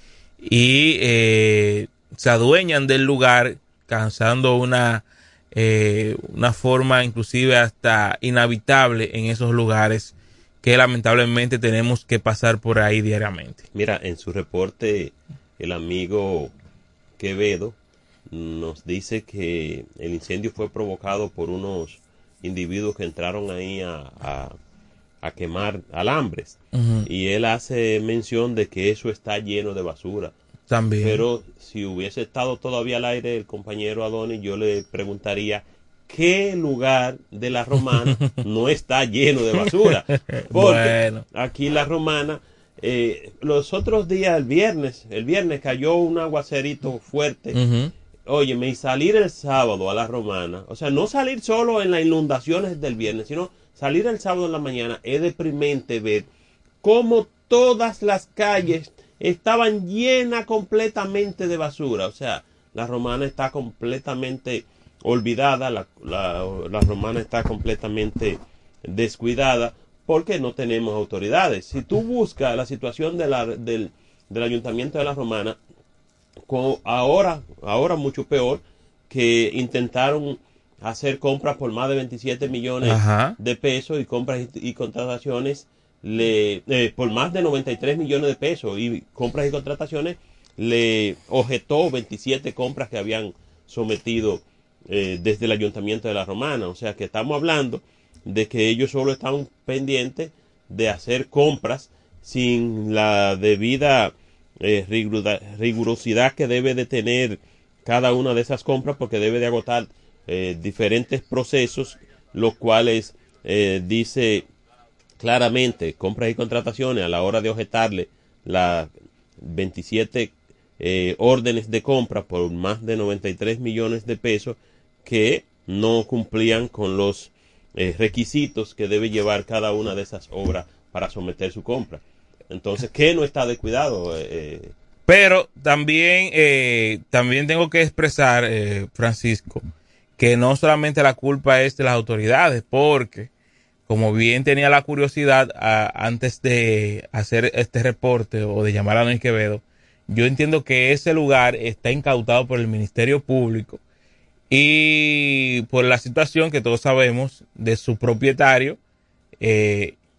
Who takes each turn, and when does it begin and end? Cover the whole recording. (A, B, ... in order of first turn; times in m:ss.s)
0:00.4-0:13.6 A
0:13.7-0:16.5 B
0:17.2-0:17.8 B
0:18.3-0:24.6 B
0:25.2-0:30.3 B
0:26.7-0:27.1 A
0:30.7-0:31.2 A
0:31.0-0:47.6 B
0:38.1-0:38.4 A
0:39.5-0:41.2 A
0:47.5-0:47.9 A
0:48.3-0:56.3 B
0:56.8-1:15.6 B
1:16.5-1:54.4 B
1:22.8-1:23.4 A
1:55.2-2:14.7 B
2:15.1-2:19.6 A
2:20.2-2:23.3 A
2:23.9-2:33.8 A
2:34.5-2:38.8 A
2:39.4-2:40.0 A